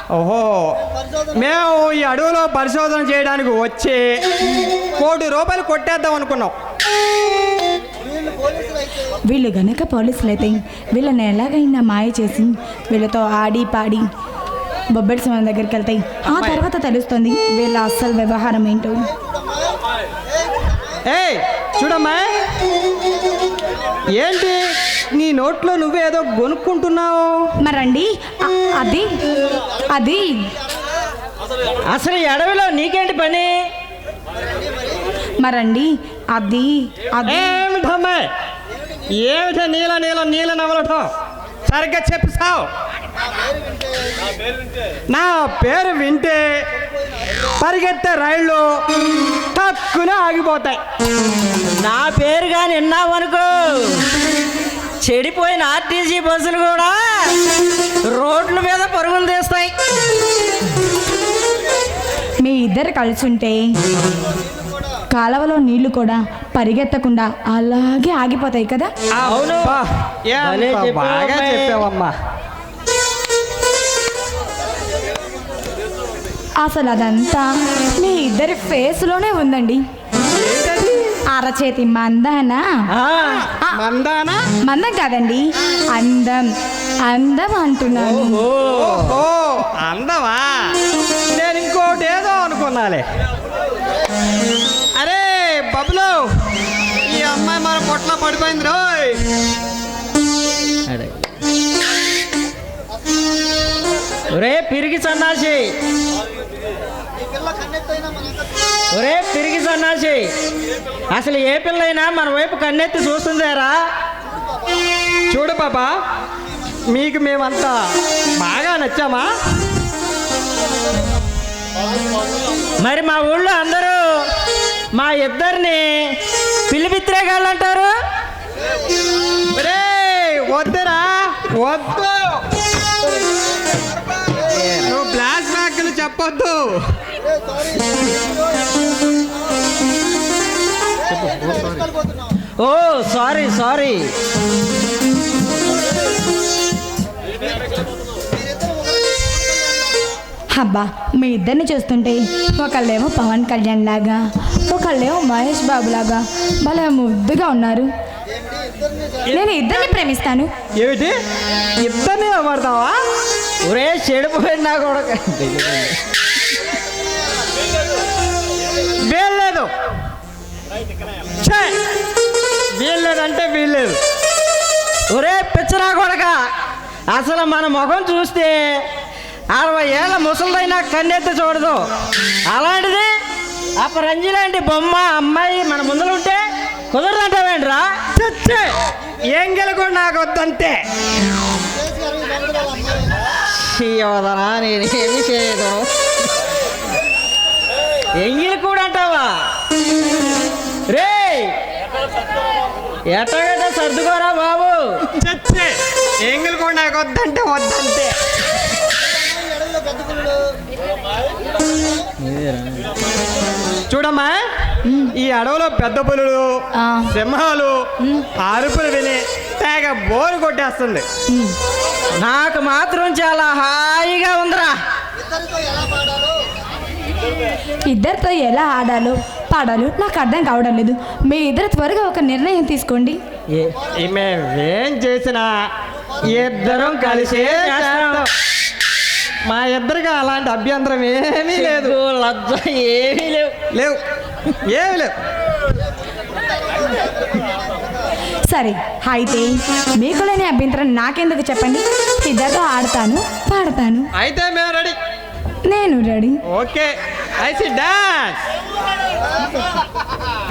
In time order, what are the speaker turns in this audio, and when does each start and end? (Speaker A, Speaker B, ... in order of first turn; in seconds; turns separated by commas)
Speaker A: 0.1-0.8, Speaker A: 1.3-4.2, Speaker A: 5.0-6.5, Speaker B: 9.3-14.1, Speaker B: 14.9-19.1, Speaker A: 16.3-16.6, Speaker A: 21.1-22.3, Speaker A: 24.2-27.4, Speaker B: 27.6-29.3, Speaker B: 29.9-30.5, Speaker C: 31.9-33.5, Speaker B: 35.4-37.5, Speaker A: 37.2-38.3, Speaker A: 39.2-41.1, Speaker A: 41.7-42.7, Speaker A: 45.1-46.6, Speaker A: 47.6-48.8, Speaker A: 49.5-50.8, Speaker C: 51.8-54.1, Speaker C: 55.0-57.4, Speaker C: 58.1-59.7, Speaker B: 62.4-63.7, Speaker B: 65.1-68.9, Speaker A: 69.1-72.1, Speaker C: 69.2-69.8, Speaker C: 70.4-71.8, Speaker B: 76.6-79.8, Speaker A: 80.3-81.2, Speaker B: 81.3-82.8, Speaker C: 82.9-83.5, Speaker A: 83.7-84.5, Speaker B: 84.6-86.5, Speaker B: 87.0-88.4, Speaker C: 87.9-89.2, Speaker A: 88.7-90.7, Speaker A: 91.3-93.0, Speaker A: 95.0-96.3, Speaker A: 97.1-99.2, Speaker C: 100.9-101.2, Speaker C: 104.3-105.7, Speaker C: 108.9-110.3, Speaker C: 111.1-113.8, Speaker A: 115.3-115.9, Speaker A: 116.9-117.8, Speaker A: 118.4-119.3, Speaker C: 122.8-124.0, Speaker C: 124.9-126.1, Speaker C: 126.7-127.9, Speaker A: 129.5-132.4, Speaker C: 134.6-134.9, Speaker A: 134.8-136.9, Speaker C: 142.6-144.0, Speaker B: 150.5-157.9, Speaker B: 159.3-160.5, Speaker A: 160.8-161.2, Speaker A: 161.8-163.0, Speaker C: 163.6-165.9, Speaker A: 169.0-169.7, Speaker A: 171.4-171.8, Speaker A: 172.8-174.0, Speaker C: 175.1-176.4, Speaker C: 177.1-178.8, Speaker C: 179.5-181.8, Speaker C: 182.5-183.1, Speaker C: 183.8-187.9, Speaker A: 188.1-188.7, Speaker A: 189.3-190.8, Speaker C: 193.5-195.9, Speaker C: 198.2-199.3, Speaker C: 200.9-201.5, Speaker C: 203.1-205.0, Speaker A: 205.2-205.7, Speaker A: 206.2-208.1, Speaker C: 212.2-212.9, Speaker A: 213.9-214.4, Speaker B: 214.8-215.1, Speaker A: 215.1-216.6, Speaker B: 216.8-217.1, Speaker A: 217.1-217.7, Speaker A: 218.4-221.0, Speaker C: 222.2-224.7, Speaker B: 227.9-233.2, Speaker A: 233.9-235.7, Speaker A: 236.2-238.3, Speaker C: 236.4-238.3, Speaker A: 239.5-242.0, Speaker C: 241.5-243.5, Speaker A: 243.7-244.0, Speaker A: 244.6-245.1, Speaker B: 248.5-254.1, Speaker A: 254.2-254.9, Speaker B: 255.7-256.4, Speaker A: 256.5-258.4